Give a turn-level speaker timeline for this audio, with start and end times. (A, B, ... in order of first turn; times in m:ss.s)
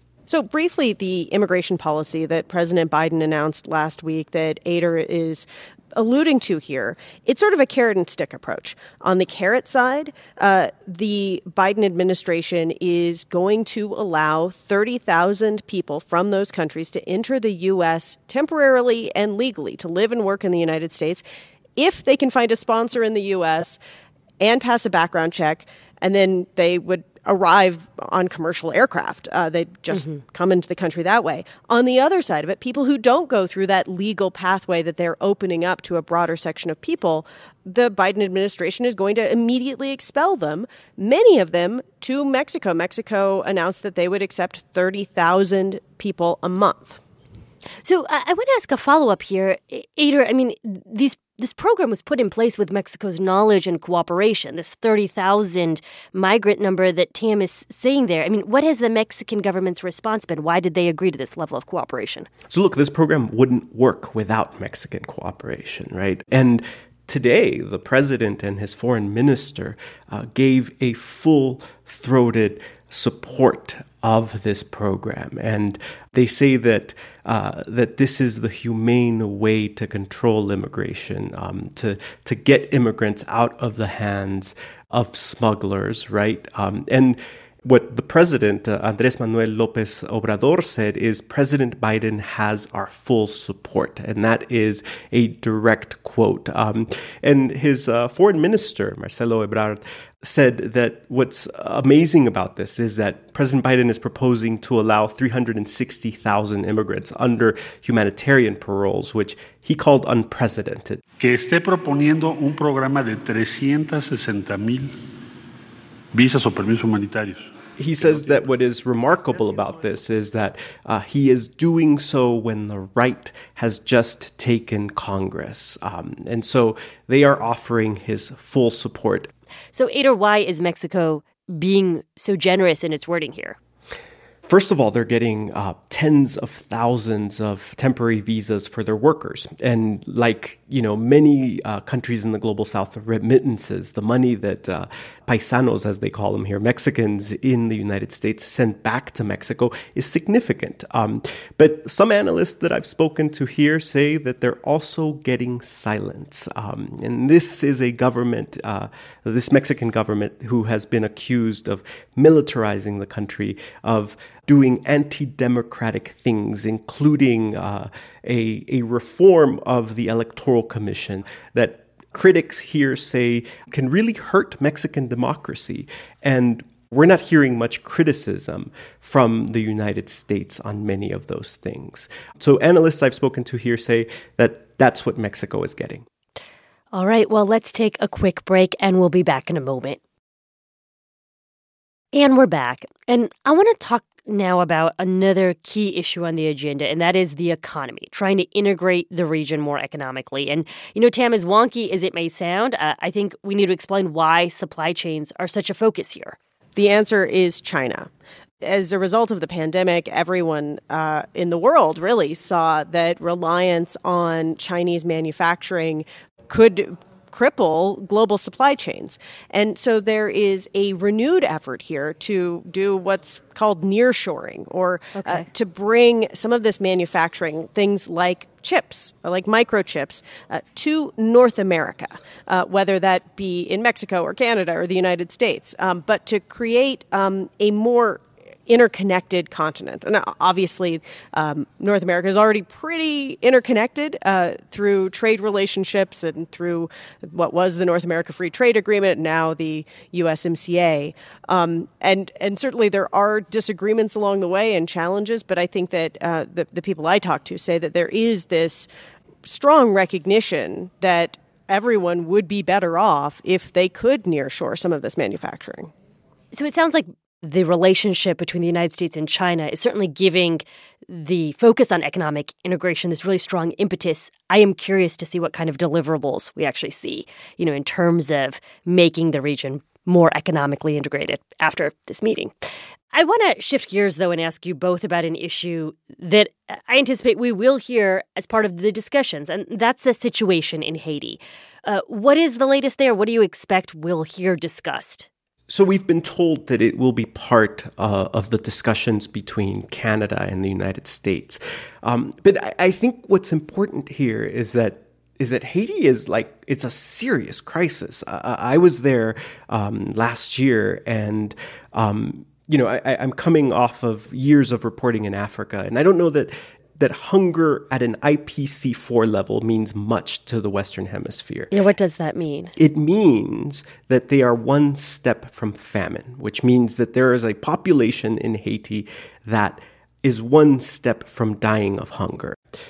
0:00.3-0:21.2 A
0:21.8-0:23.8 A
0:24.4-0:47.0 A
0:29.9-0:30.2 B
0:47.8-1:02.3 B
1:02.5-1:51.0 C
1:51.2-1:54.9 D
1:56.1-1:57.4 D
1:57.8-2:09.3 C
1:58.0-1:58.4 D
2:09.7-2:13.6 B
2:14.5-3:06.0 C
3:06.9-3:10.0 B
3:12.1-3:26.4 B
3:26.8-3:28.1 A
3:28.6-4:18.9 A
3:45.1-3:45.5 B
4:19.4-4:25.9 A
4:26.5-4:42.5 B
4:43.1-4:55.3 B
4:55.7-5:21.7 C
5:21.7-5:22.7 B
5:22.8-5:32.6 C